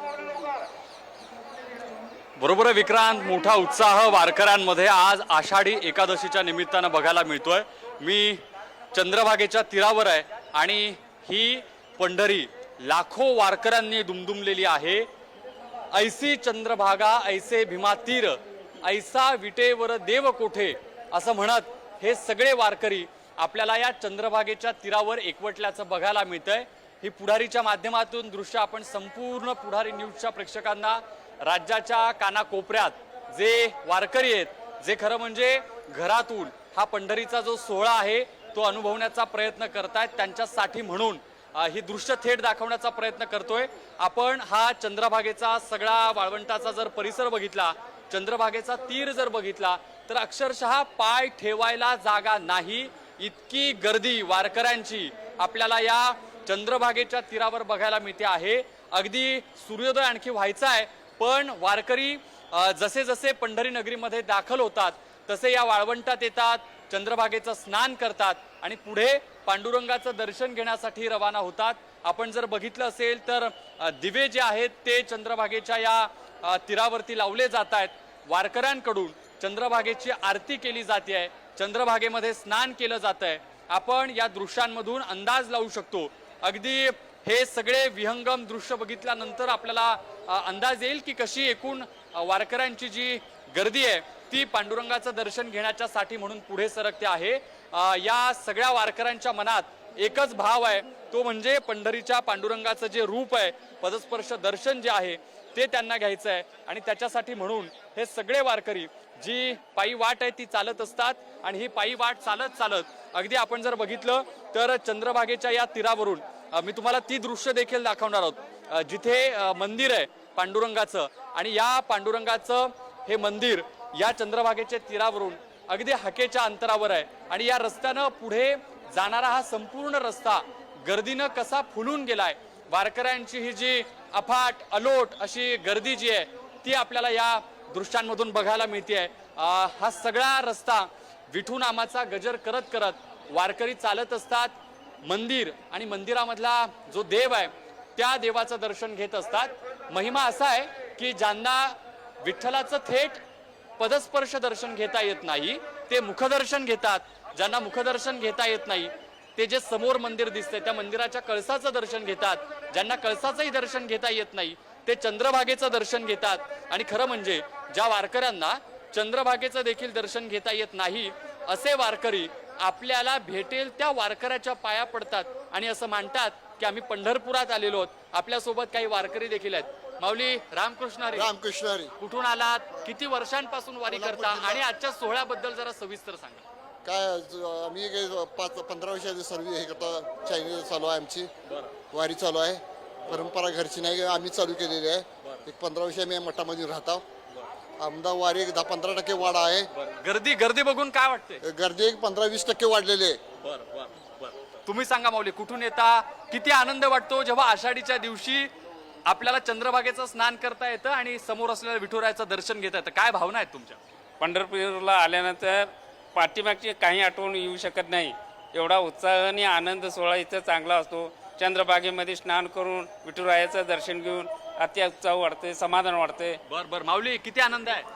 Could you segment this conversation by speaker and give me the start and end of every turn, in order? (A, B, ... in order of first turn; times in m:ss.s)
0:02.4-0:08.4 A
0:08.9-0:15.1 A
0:15.9-2:24.5 A
2:25.0-2:33.2 A
2:33.8-3:01.3 A
3:01.1-3:02.0 B
3:02.0-3:06.4 A
3:03.9-3:04.6 B
3:06.8-3:11.3 B
3:11.9-3:17.0 B
3:17.8-3:19.7 B
3:19.8-3:21.4 A
3:21.4-3:23.2 B
3:23.5-3:28.5 A
3:29.1-3:33.8 A
3:34.2-3:46.4 C
3:46.5-3:47.9 A